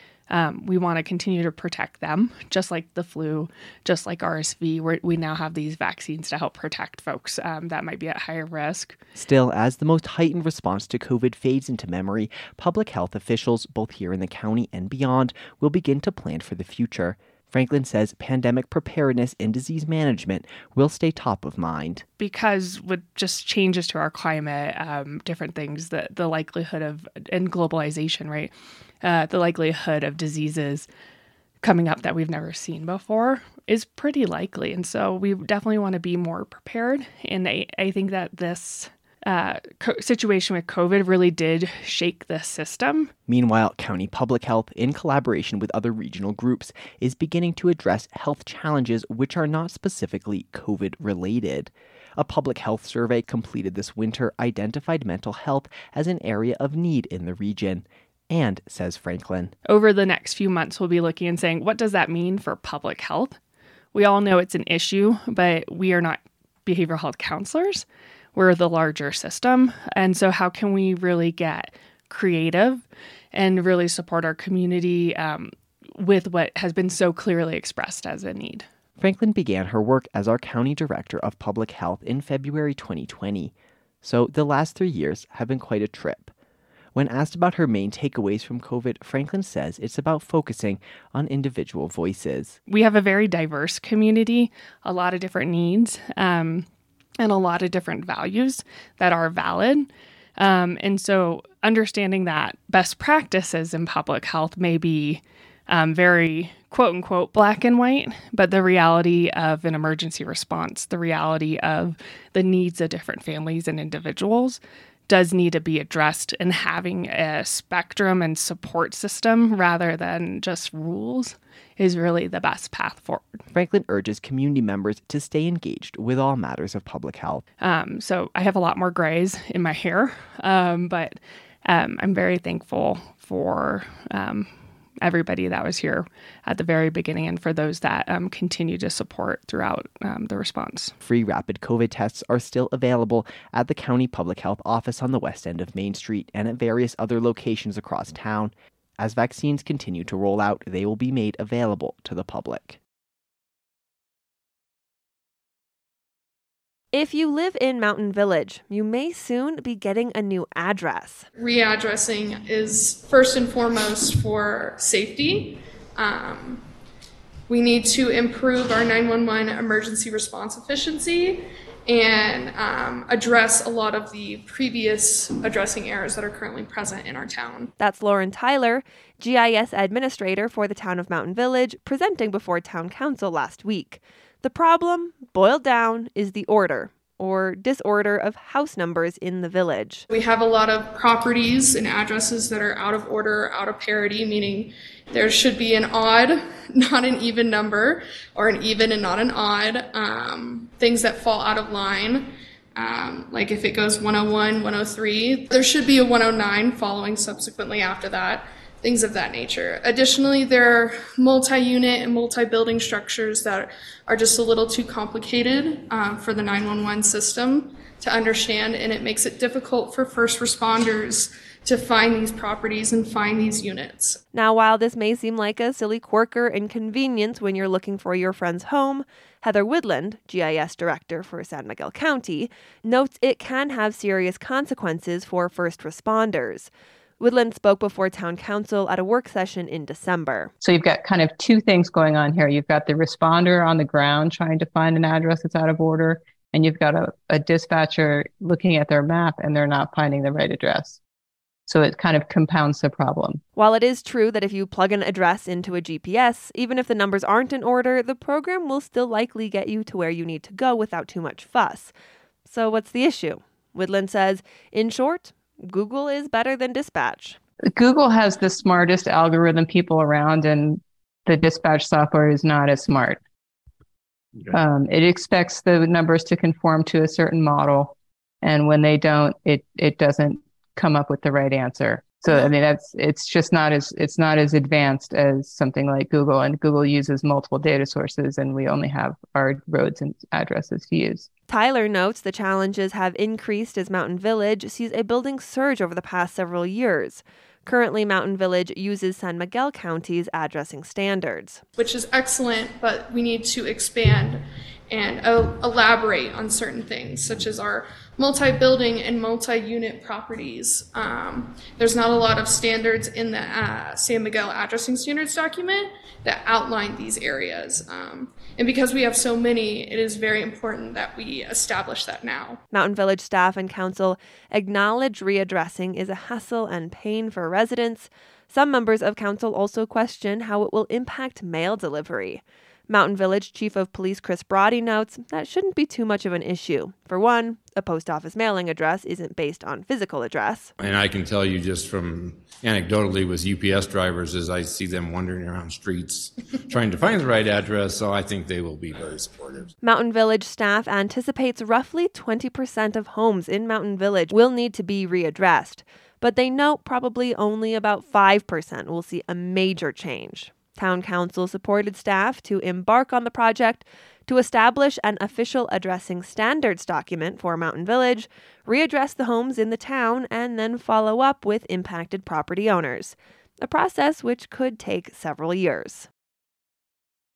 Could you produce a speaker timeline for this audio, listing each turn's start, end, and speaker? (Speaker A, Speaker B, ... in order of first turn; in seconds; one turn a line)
Speaker A: 0.3-9.0
Speaker B: 9.1-22.0
Speaker A: 22.2-30.9
Speaker A: 31.6-43.1
Speaker B: 43.3-59.5
Speaker A: 59.6-63.4
Speaker A: 63.9-78.7
Speaker B: 79.0-86.3
Speaker B: 86.9-92.6
Speaker A: 92.7-96.7
Speaker A: 97.2-123.4
Speaker B: 123.5-127.4
Speaker A: 127.6-134.5
Speaker A: 135.0-140.9
Speaker B: 141.0-152.8
Speaker C: 156.9-161.3
Speaker D: 161.3-166.6
Speaker D: 167.5-177.7
Speaker C: 177.8-190.1
Speaker D: 190.1-224.2
Speaker C: 224.3-240.5
Speaker E: 240.6-251.0
Speaker E: 251.7-253.4
Speaker C: 253.6-261.9
Speaker C: 262.4-267.4
Speaker E: 267.7-273.2
Speaker E: 274.5-291.3
Speaker C: 291.5-301.6
Speaker D: 301.8-322.6
Speaker C: 322.7-340.7
Speaker F: 340.8-349.7
Speaker C: 349.8-376.1